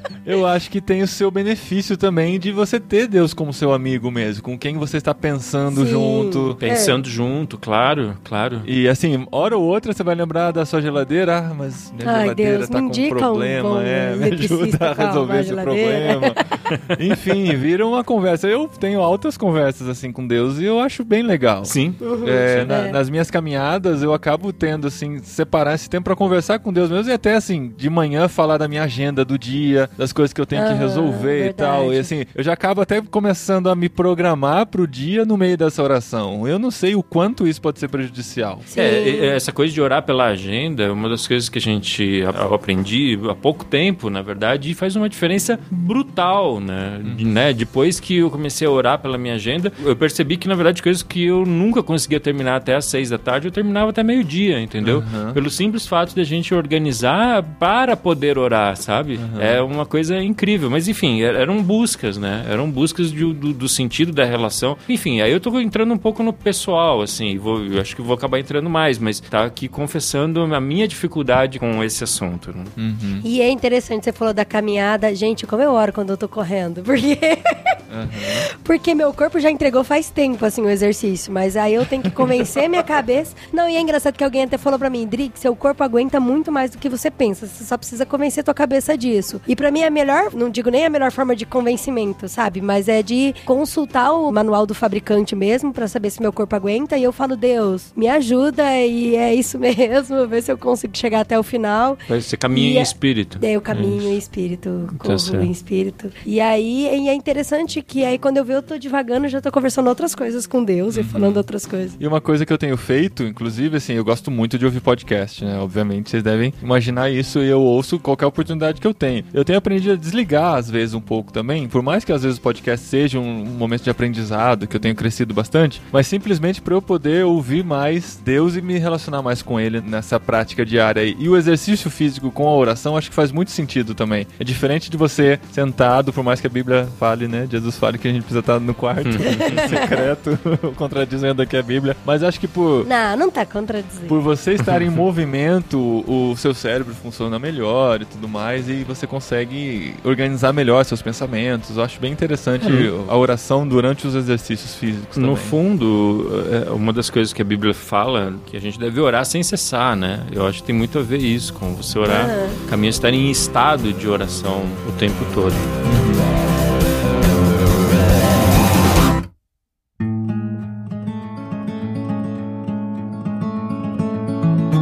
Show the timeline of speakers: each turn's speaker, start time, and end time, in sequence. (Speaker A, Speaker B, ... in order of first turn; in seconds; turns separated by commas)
Speaker A: 0.2-6.6, Speaker B: 5.7-7.0, Speaker C: 6.6-8.7, Speaker A: 8.6-38.7, Speaker B: 12.0-16.4, Speaker C: 21.6-22.7, Speaker B: 22.0-23.0, Speaker B: 30.5-32.1, Speaker B: 38.7-39.4, Speaker C: 38.8-72.7, Speaker A: 54.8-55.4, Speaker A: 59.2-59.6, Speaker A: 72.8-73.2, Speaker B: 73.2-77.8, Speaker A: 77.9-78.5, Speaker B: 78.3-112.0, Speaker C: 102.1-104.2, Speaker C: 104.9-105.5, Speaker A: 110.9-111.5, Speaker A: 112.0-142.9, Speaker C: 139.0-139.8, Speaker B: 139.4-139.9, Speaker B: 142.8-144.2, Speaker A: 144.1-155.6, Speaker C: 152.6-152.9, Speaker C: 155.2-165.7, Speaker B: 162.1-162.6, Speaker A: 165.8-166.2